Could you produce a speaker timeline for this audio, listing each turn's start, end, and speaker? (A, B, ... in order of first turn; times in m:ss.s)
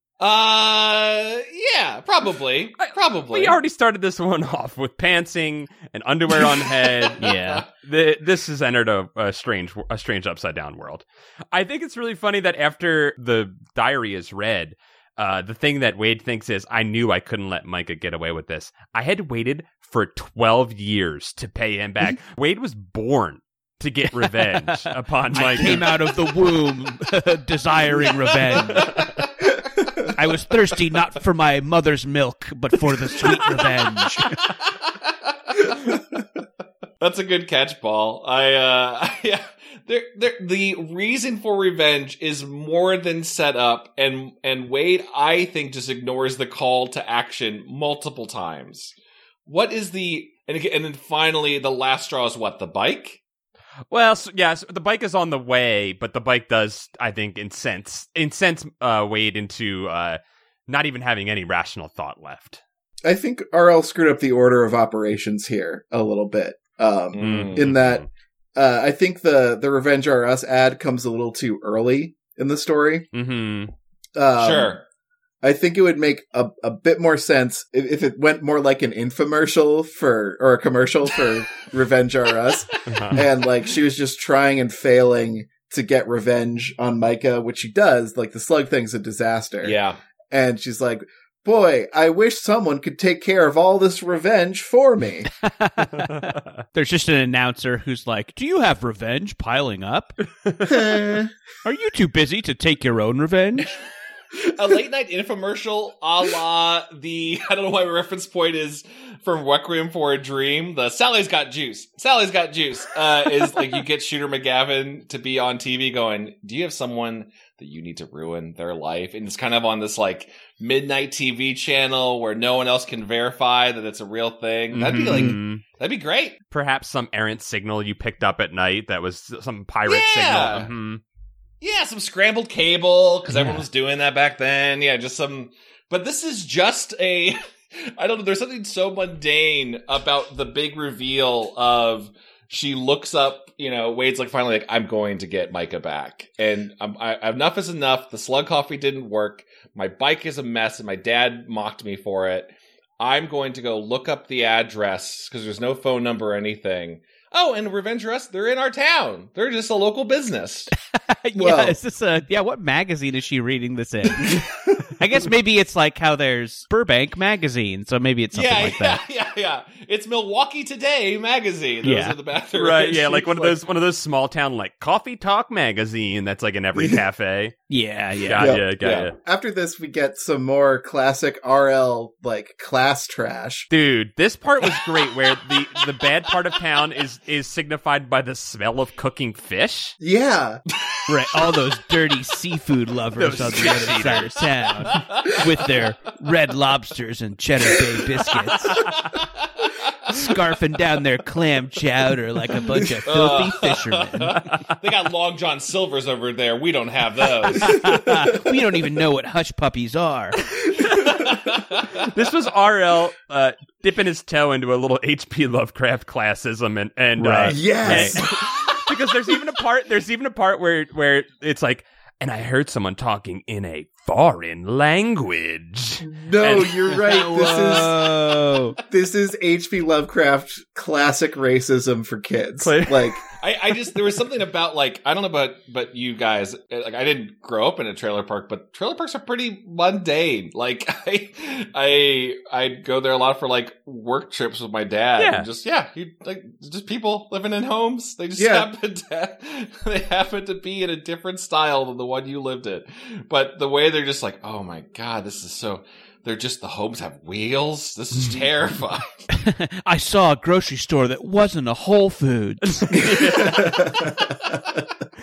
0:00.2-0:03.6 A
0:02.8-0:25.9 B
0:06.4-0:07.6 A
0:07.2-0:07.6 C
0:24.2-0:29.1 C
0:28.7-0:29.1 A
0:30.1-0:34.4 C
0:34.3-0:36.0 A
0:37.0-0:48.9 A
0:49.4-0:53.2 A
0:53.9-1:02.6 B
1:03.0-1:13.1 D
1:07.1-1:07.7 A
1:07.2-1:08.0 B
1:13.1-1:13.7 B
1:14.1-1:14.8 D
1:14.4-1:14.8 A
1:15.4-1:29.8 D
1:22.9-1:23.2 B
1:29.6-1:30.0 A
1:30.3-1:35.3 D
1:35.4-1:40.2 C
1:40.4-1:40.9 B
1:40.6-1:41.3 D
1:41.6-1:43.7 C
1:44.3-2:06.4 A
2:04.7-2:05.6 B
2:06.5-2:11.0 B
2:09.8-2:10.7 A
2:11.6-2:40.7 A
2:13.3-2:13.6 C
2:40.9-2:49.0 C
2:41.3-2:41.8 D
2:44.3-2:44.8 D
2:48.3-2:53.6 A
2:51.8-2:52.2 C
2:52.5-2:57.6 B
2:56.8-2:57.0 D
2:57.7-2:58.6 C
2:58.2-2:59.1 B
2:58.4-3:03.7 D
2:58.8-2:59.1 A
3:03.7-3:10.0 B
3:10.0-3:10.6 D
3:11.1-3:18.9 C
3:13.2-3:14.3 B
3:13.4-3:14.3 A
3:14.8-3:15.4 A
3:18.7-3:20.1 A
3:20.1-3:24.4 C
3:23.0-3:27.8 A
3:27.5-3:30.4 C
3:30.9-3:32.0 A
3:31.9-3:47.1 B
3:37.2-3:38.2 C
3:37.4-3:38.3 D
3:46.0-3:48.1 D
3:47.1-3:48.8 C
3:48.9-3:53.2 D
3:52.6-3:53.2 B
3:53.4-4:19.2 A
4:05.2-4:05.5 B
4:08.4-4:08.7 D
4:19.3-4:23.5 C
4:22.8-4:23.5 B
4:23.1-4:24.6 D